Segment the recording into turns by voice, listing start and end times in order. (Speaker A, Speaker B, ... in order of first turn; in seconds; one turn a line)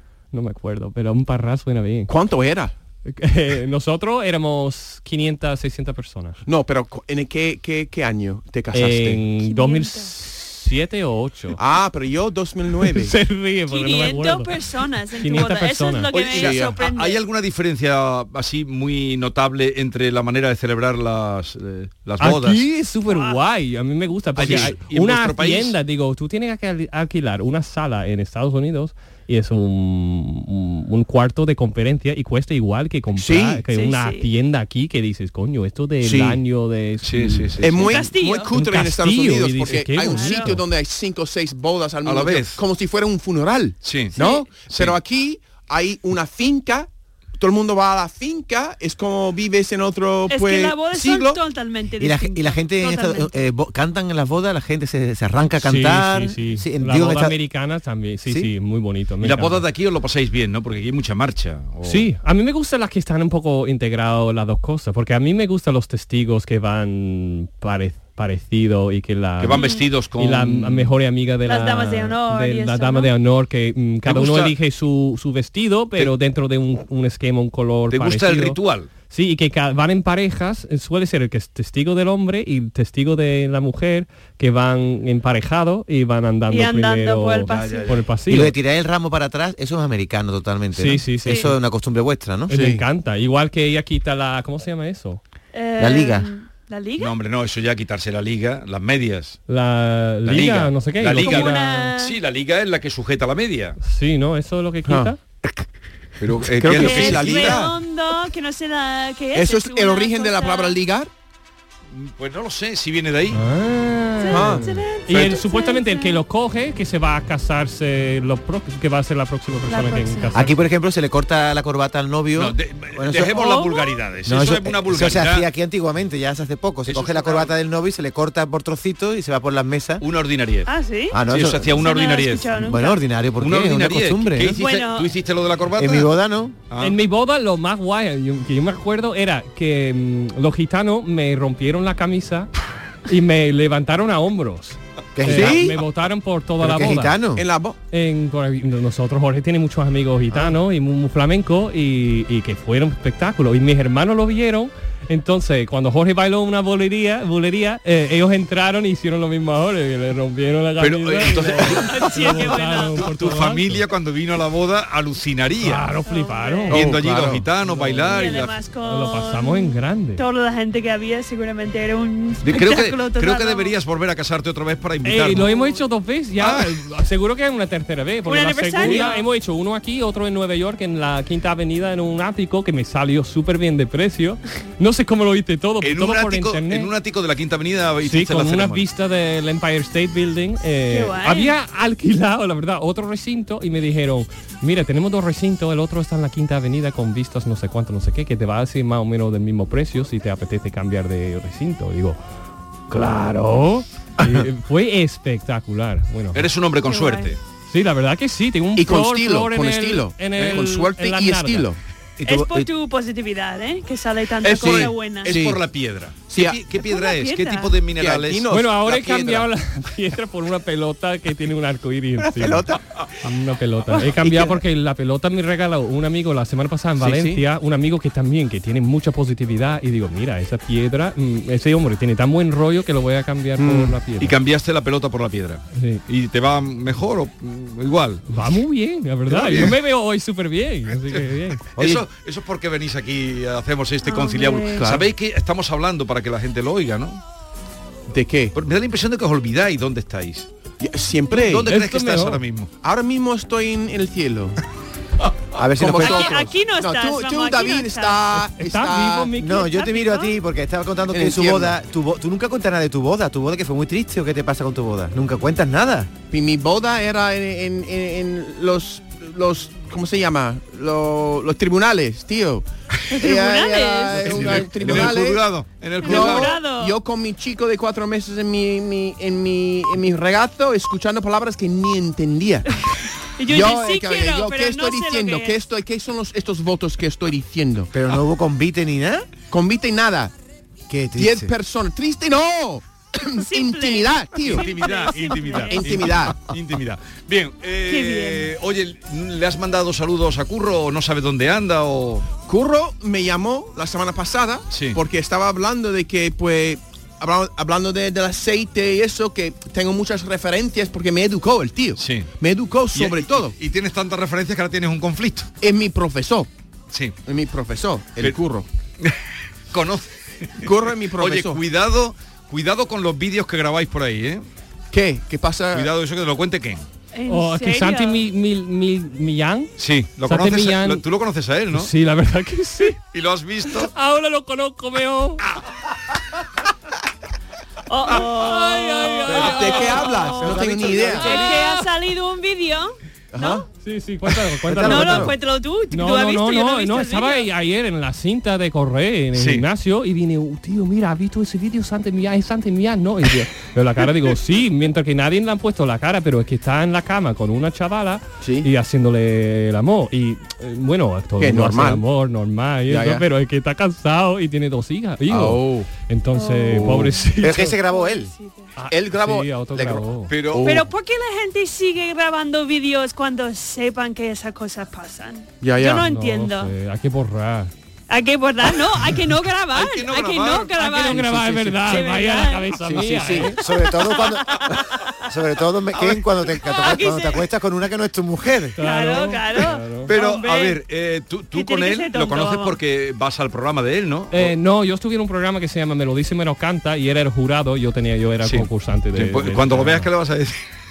Speaker A: 0.3-2.1
Speaker B: 2.1-2.8
Speaker A: 3.1-6.4
Speaker B: 6.5-9.2
Speaker A: 8.7-11.6
Speaker C: 9.4-10.1
Speaker B: 11.6-13.2
Speaker A: 12.8-14.6
Speaker C: 13.7-17.2
Speaker A: 15.1-16.1
Speaker D: 16.1-22.6
Speaker B: 16.1-16.8
Speaker A: 22.2-40.6
Speaker C: 23.1-23.4
Speaker D: 24.4-25.8
Speaker B: 33.2-33.6
Speaker C: 33.7-34.2
Speaker B: 36.0-36.4
Speaker D: 37.0-37.9
Speaker B: 37.6-51.4
Speaker C: 37.9-38.6
Speaker C: 40.0-40.6
Speaker D: 42.0-42.6
Speaker D: 43.8-45.0
Speaker C: 44.2-44.5
Speaker C: 50.3-53.4
Speaker E: 52.0-57.4
Speaker A: 55.6-59.6
Speaker D: 59.2-62.1
Speaker A: 61.8-78.6
Speaker D: 69.4-70.9
Speaker C: 69.5-69.9
Speaker C: 71.4-73.1
Speaker D: 74.0-74.5
Speaker D: 77.9-78.9
Speaker A: 79.1-88.5
Speaker C: 86.5-87.7
Speaker D: 87.5-88.0
Speaker E: 88.3-92.5
Speaker A: 90.8-91.5
Speaker A: 92.5-95.2
Speaker B: 92.5-92.8
Speaker C: 95.5-97.1
Speaker E: 95.8-96.3
Speaker D: 97.0-99.4
Speaker A: 99.5-101.9
Speaker D: 100.2-103.8
Speaker C: 101.2-102.2
Speaker A: 103.8-105.2
Speaker B: 104.9-105.1
Speaker D: 106.2-107.7
Speaker B: 106.6-107.7
Speaker C: 106.7-110.8
Speaker B: 109.3-111.1
Speaker D: 111.9-113.4
Speaker A: 113.3-120.6
Speaker C: 114.2-116.2
Speaker B: 114.3-114.7
Speaker D: 115.1-115.4
Speaker C: 119.7-120.4
Speaker E: 120.3-123.4
Speaker D: 122.3-125.5
Speaker C: 123.3-123.9
Speaker E: 124.3-130.0
Speaker D: 126.9-127.5
Speaker D: 130.0-130.7
Speaker C: 130.7-133.0
Speaker E: 131.1-131.7
Speaker D: 131.3-132.5
Speaker E: 132.6-134.6
Speaker D: 133.4-136.1
Speaker C: 134.6-135.1
Speaker E: 135.8-136.6
Speaker D: 136.7-137.0
Speaker A: 136.8-142.5
Speaker A: 143.1-147.2
Speaker E: 145.2-145.8
Speaker B: 145.2-145.8
Speaker E: 146.6-147.5
Speaker B: 146.8-147.8
Speaker A: 147.9-163.8
Speaker D: 160.8-165.9
Speaker C: 161.7-163.1
Speaker A: 165.6-166.9
Speaker C: 166.1-166.7
Speaker B: 166.7-167.4
Speaker D: 166.7-168.6
Speaker A: 167.6-168.2
Speaker C: 168.1-173.7
Speaker A: 168.8-170.2
Speaker D: 172.4-175.6
Speaker A: 175.1-186.9
Speaker C: 175.5-175.8
Speaker D: 176.4-176.7
Speaker C: 178.2-179.2
Speaker D: 185.8-188.8
Speaker A: 188.1-202.2
Speaker C: 190.9-191.6
Speaker A: 202.9-206.4
Speaker D: 206.3-207.4
Speaker C: 206.8-207.3
Speaker A: 207.7-211.7
Speaker B: 208.8-212.7
Speaker D: 210.4-210.6
Speaker C: 212.2-215.3
Speaker D: 214.4-218.4
Speaker B: 214.5-215.6
Speaker B: 216.3-216.6
Speaker C: 216.8-217.8
Speaker B: 218.0-219.5
Speaker A: 218.5-222.7
Speaker B: 222.2-223.0
Speaker A: 223.2-234.3
Speaker B: 224.2-224.6
Speaker B: 227.0-227.4
Speaker B: 233.6-234.0
Speaker D: 234.2-238.3
Speaker A: 235.7-236.0
Speaker A: 238.3-241.6
Speaker D: 239.3-239.8
Speaker D: 241.8-247.2
Speaker C: 244.0-244.8
Speaker B: 244.8-245.0
Speaker B: 248.1-248.5
Speaker D: 248.5-250.5
Speaker B: 250.8-251.7
Speaker D: 251.3-252.7
Speaker A: 251.7-252.4
Speaker B: 252.8-254.6
Speaker E: 255.6-256.4
Speaker B: 255.8-259.3
Speaker C: 256.0-258.2
Speaker A: 258.3-260.3
Speaker E: 259.4-266.1
Speaker B: 261.1-261.8
Speaker B: 266.3-275.4
Speaker C: 273.1-274.3
Speaker D: 274.2-276.6
Speaker E: 274.3-275.1
Speaker C: 276.0-277.0
Speaker B: 276.0-282.7
Speaker C: 283.4-285.6
Speaker B: 283.5-287.9
Speaker E: 287.9-289.3
Speaker B: 289.5-290.3
Speaker E: 290.9-291.5
Speaker B: 291.2-294.7
Speaker C: 293.4-296.1
Speaker D: 294.4-302.3
Speaker B: 295.7-296.4
Speaker C: 297.9-298.5
Speaker B: 302.5-313.6
Speaker D: 304.7-305.0
Speaker D: 312.0-312.3
Speaker D: 312.9-315.5
Speaker B: 315.6-316.5
Speaker B: 317.3-318.7
Speaker D: 319.7-324.4
Speaker B: 320.6-321.6
Speaker B: 324.9-325.9
Speaker D: 325.7-326.9
Speaker C: 327.1-328.2
Speaker A: 327.3-329.7
Speaker D: 329.8-331.9
Speaker A: 330.2-331.0
Speaker A: 331.7-333.0
Speaker D: 333.1-333.9
Speaker A: 333.7-335.4
Speaker C: 337.9-343.7
Speaker A: 338.4-340.1
Speaker B: 339.4-341.3
Speaker E: 340.4-341.3
Speaker A: 341.2-341.9
Speaker B: 343.3-343.6
Speaker A: 343.8-345.4
Speaker E: 344.7-345.4
Speaker C: 344.8-347.5
Speaker A: 345.9-367.8
Speaker D: 349.4-349.6
Speaker B: 358.4-358.7
Speaker B: 361.4-362.0
Speaker B: 362.9-363.2
Speaker B: 365.3-365.9
Speaker C: 366.3-366.9
Speaker E: 367.4-368.3
Speaker C: 367.8-368.7
Speaker A: 368.8-370.3
Speaker B: 368.9-370.9
Speaker D: 370.3-370.8
Speaker C: 370.6-376.7
Speaker B: 375.6-376.0
Speaker A: 375.9-377.7
Speaker C: 378.1-381.2
Speaker D: 379.7-382.1
Speaker A: 380.8-383.6
Speaker C: 381.8-382.8
Speaker B: 382.9-383.5
Speaker E: 383.6-388.8
Speaker D: 385.9-386.6
Speaker C: 386.6-387.5
Speaker A: 388.8-390.1
Speaker C: 388.8-390.8
Speaker D: 390.1-394.5
Speaker C: 391.5-392.8
Speaker A: 394.3-400.1
Speaker D: 398.4-400.6